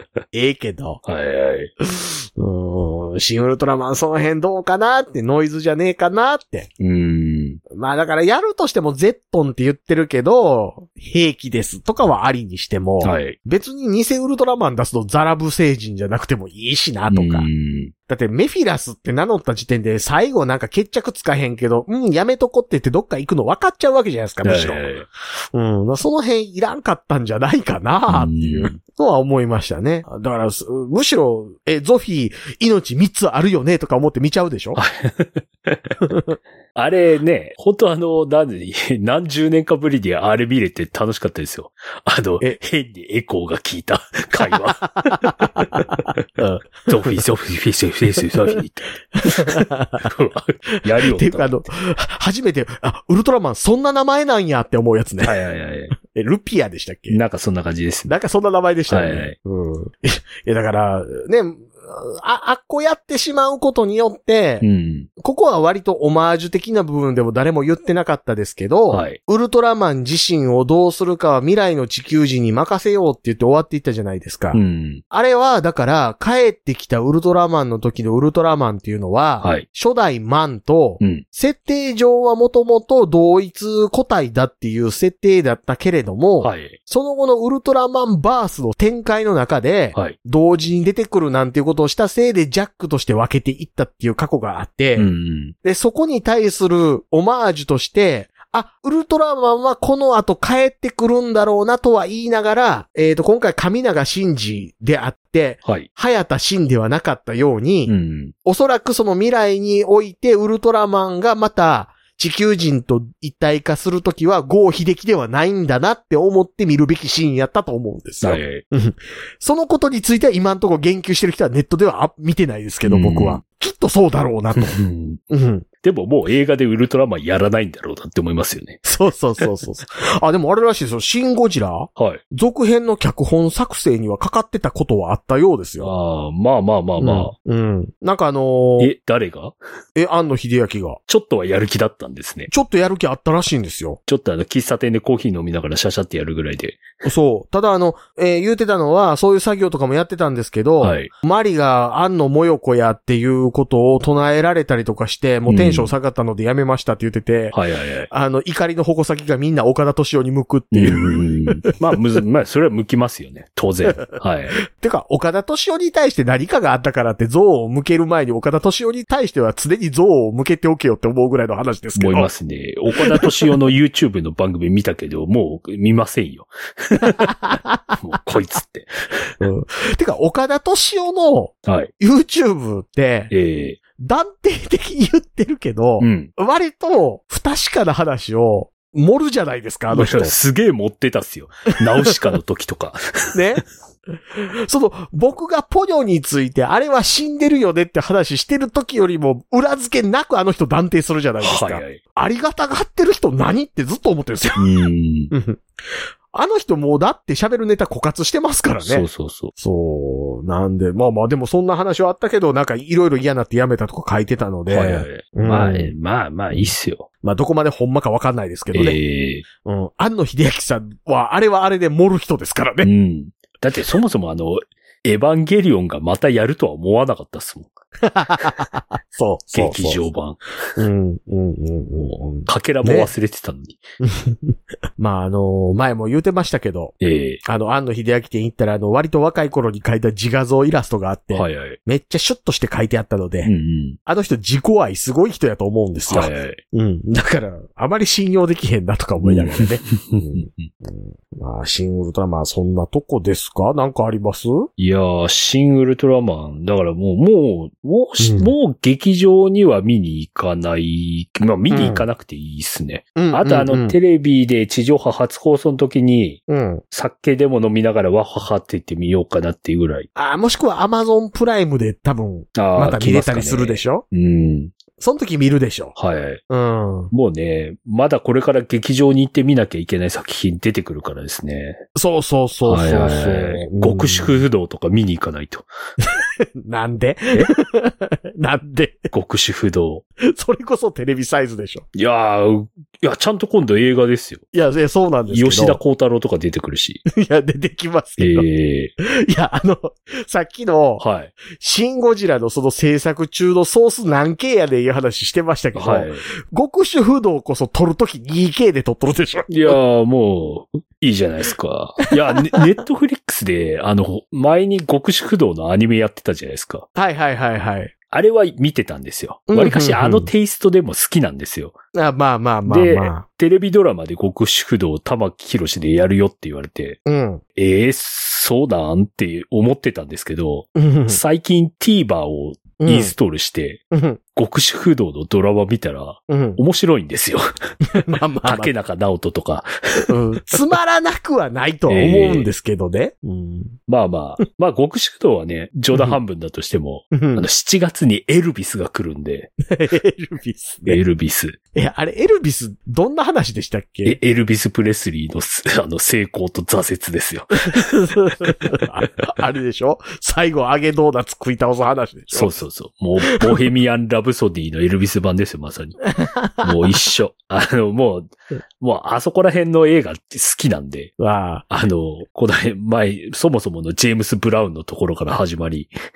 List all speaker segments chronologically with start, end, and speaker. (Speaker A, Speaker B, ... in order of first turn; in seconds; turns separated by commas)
Speaker A: 0.3-1.0, Speaker B: 1.0-1.7, Speaker A: 1.8-6.7, Speaker B: 6.8-7.6, Speaker A: 7.7-17.5, Speaker B: 13.0-13.4, Speaker B: 17.1-17.9, Speaker A: 18.1-24.9, Speaker B: 24.4-25.1, Speaker A: 25.5-34.8, Speaker B: 28.1-28.8, Speaker B: 34.8-35.9, Speaker A: 36.1-36.3, Speaker B: 36.7-45.6, Speaker A: 44.5-47.2, Speaker B: 46.9-51.6, Speaker A: 49.2-50.1, Speaker A: 50.8-55.4, Speaker B: 55.2-55.9, Speaker A: 56.0-57.2, Speaker B: 57.1-58.1, Speaker A: 58.1-64.7, Speaker B: 58.9-59.3, Speaker B: 64.6-65.1, Speaker A: 65.2-95.1, Speaker B: 68.9-69.2, Speaker B: 74.5-75.0, Speaker B: 86.4-86.8, Speaker B: 95.0-95.5, Speaker A: 95.6-107.9, Speaker B: 107.8-108.3, Speaker A: 108.4-124.8, Speaker B: 118.2-118.6, Speaker B: 122.8-123.4, Speaker B: 124.6-125.2, Speaker A: 125.3-125.7, Speaker B: 125.8-128.8, Speaker A: 128.8-135.9, Speaker B: 135.8-137.3, Speaker A: 137.0-138.9, Speaker B: 138.8-139.6, Speaker A: 139.9-141.0, Speaker B: 141.1-142.5, Speaker A: 142.5-144.0, Speaker B: 144.1-146.8, Speaker A: 147.0-157.6, Speaker B: 150.8-151.1, Speaker B: 155.5-155.9, Speaker B: 157.5-158.1, Speaker A: 158.1-161.7, Speaker B: 160.7-164.6, Speaker A: 164.7-172.3, Speaker B: 171.9-177.3, Speaker A: 173.0-173.5, Speaker A: 177.0-177.9, Speaker B: 178.0-179.3, Speaker A: 179.4-183.3, Speaker B: 181.6-181.9, Speaker B: 183.3-183.8, Speaker A: 184.0-190.3, Speaker B: 186.0-186.3, Speaker B: 189.9-193.4, Speaker A: 193.3-193.6, Speaker A: 194.3-204.7, Speaker B: 201.4-202.0, Speaker B: 204.6-205.3, Speaker A: 205.3-205.6, Speaker A: 206.3-215.9, Speaker B: 208.8-209.5, Speaker B: 214.7-217.1, Speaker A: 216.5-219.0, Speaker B: 218.7-219.4, Speaker A: 219.6-222.9, Speaker B: 222.8-227.7, Speaker A: 228.0-230.0, Speaker B: 229.5-230.5, Speaker A: 230.8-233.1, Speaker B: 232.0-233.8, Speaker A: 234.0-243.5, Speaker B: 237.0-237.4, Speaker B: 241.3-241.8, Speaker B: 243.4-244.0, Speaker A: 244.1-254.7, Speaker B: 246.1-246.6, Speaker B: 249.2-250.7, Speaker B: 254.8-270.1, Speaker A: 258.2-258.5, Speaker A: 261.7-262.1, Speaker A: 263.1-263.9, Speaker A: 266.5-266.8, Speaker A: 270.1-274.0, Speaker B: 272.5-274.7, Speaker A: 275.0-275.9, Speaker B: 275.9-276.4, Speaker A: 276.5-277.1, Speaker B: 277.1-281.8, Speaker A: 281.9-284.4, Speaker B: 282.6-285.7, Speaker A: 286.0-289.1, Speaker B: 289.1-290.0, Speaker A: 290.2-291.9, Speaker B: 291.9-294.4, Speaker A: 294.5-295.8, Speaker B: 295.3-297.0, Speaker A: 297.1-298.5, Speaker B: 298.2-298.9, Speaker A: 299.0-309.8, Speaker B: 301.0-301.3, Speaker B: 305.7-306.2, Speaker B: 309.5-316.9, Speaker A: 312.1-312.6, Speaker A: 316.9-317.9, Speaker B: 318.1-321.8, Speaker A: 319.5-320.3, Speaker A: 321.9-323.2, Speaker B: 322.7-327.0, Speaker A: 327.1-327.4, Speaker B: 327.6-333.8, Speaker A: 330.8-331.2, Speaker A: 332.8-333.1, Speaker A: 333.9-334.2, Speaker B: 334.3-337.5, Speaker A: 336.3-336.6, Speaker A: 337.8-338.7, Speaker B: 338.4-340.1, Speaker A: 340.1-343.8, Speaker B: 341.9-342.5, Speaker B: 343.9-349.5, Speaker A: 345.9-346.2, Speaker A: 347.1-347.5, Speaker A: 349.7-351.0, Speaker B: 350.8-351.6, Speaker A: 351.7-354.2, Speaker B: 354.0-357.9, Speaker A: 357.7-362.5, Speaker B: 362.3-366.0, Speaker A: 363.3-363.6, Speaker A: 366.1-367.0, Speaker B: 366.6-371.1, Speaker A: 371.2-371.6, Speaker B: 371.7-375.9